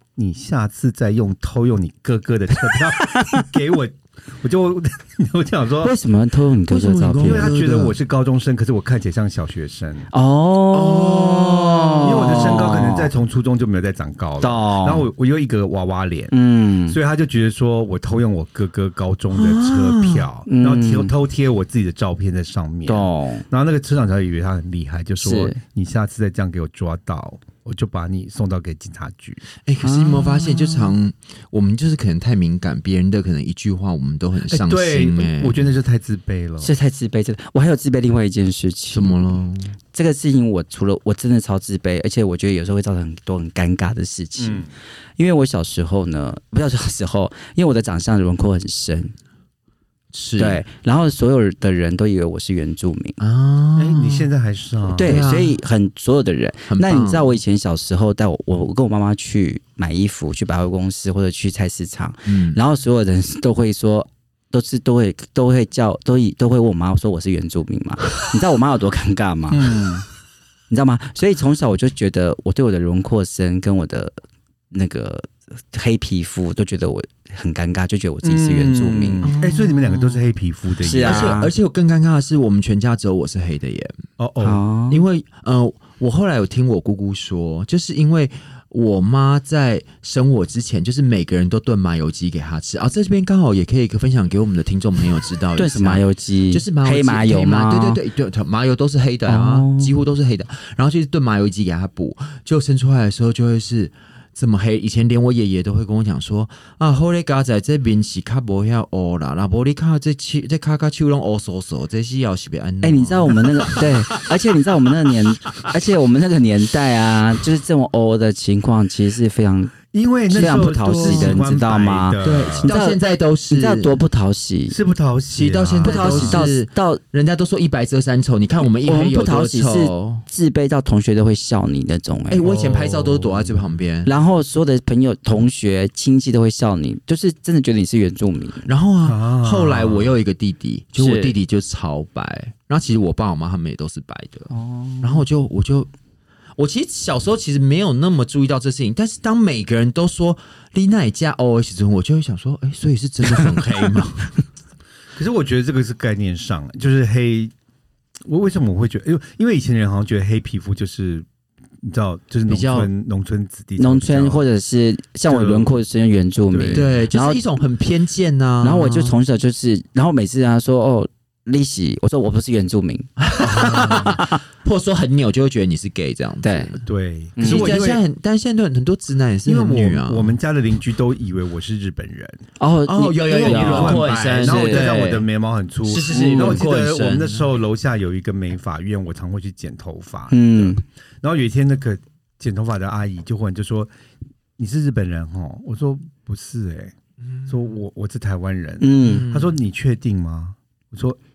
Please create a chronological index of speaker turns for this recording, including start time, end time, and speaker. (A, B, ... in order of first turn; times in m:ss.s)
0:00.2-0:05.9 A
0:03.1-0:03.4 B
0:05.8-0:07.6 B
0:06.7-0:08.0 C
0:07.2-0:10.1 A
0:10.1-0:13.1 B
0:10.7-0:12.6 C
0:12.0-0:16.3 A
0:14.4-0:15.1 B
0:16.3-0:17.0 B
0:16.9-0:29.4 A
0:19.3-0:20.3 C
0:20.4-0:21.1 B
0:22.9-0:23.4 B
0:25.2-0:25.6 B
0:29.6-0:35.7 C
0:29.8-0:30.9 B
0:34.5-0:36.7 A
0:36.6-0:39.3 B
0:38.9-0:39.7 C
0:39.9-0:49.1 B
0:44.4-0:44.7 A
0:50.1-0:50.6 C
0:50.4-0:53.2 B
0:53.2-0:54.3 C
0:53.8-0:55.2 A
0:54.9-1:09.9 B
0:55.0-0:55.6 C
0:56.7-0:57.4 C
1:02.3-1:02.6 C
1:09.5-1:10.0 A
1:10.7-1:14.1 B
1:14.7-1:19.2 B
1:18.2-1:21.4 A
1:19.2-1:20.2 C
1:20.8-1:21.5 B
1:21.0-1:24.0 C
1:24.2-1:24.6 A
1:24.4-1:25.0 B
1:24.9-1:53.9 C
1:35.6-1:38.0 B
1:39.3-1:39.9 B
1:52.8-1:59.8 B
1:59.9-2:02.7 A
2:00.3-2:04.8 B
2:00.5-2:01.4 C
2:02.2-2:04.0 C
2:04.7-2:06.4 A
2:05.3-2:10.2 C
2:05.8-2:07.0 B
2:08.8-2:12.4 B
2:12.3-2:14.1 C
2:12.4-2:13.6 A
2:14.0-2:18.7 B
2:18.6-2:24.5 C
2:19.0-2:20.2 A
2:21.0-2:21.3 B
2:24.5-2:25.2 B
2:25.0-2:25.9 C
2:26.6-2:34.3 C
2:35.2-2:37.5 A
2:38.2-2:41.2 A
2:41.8-2:44.4 A
2:42.5-2:42.9 C
2:43.8-2:47.4 B
2:45.3-2:45.8 A
2:46.5-2:46.9 A
2:46.7-2:49.2 C
2:48.6-2:54.4 B
2:53.2-2:56.8 C
2:53.4-2:54.2 A
2:56.4-2:56.7 B
2:56.8-2:58.0 A
2:57.4-2:57.8 B
2:57.4-3:00.3 C
2:59.4-3:02.4 A
3:02.6-3:05.0 B
3:02.9-3:05.3 C
3:03.2-3:13.9 A
3:05.8-3:07.4 C
3:06.1-3:06.6 B
3:10.3-3:10.8 B
3:14.6-3:16.9 A
3:17.5-3:21.2 A
3:18.8-3:19.3 B
3:19.0-3:19.5 C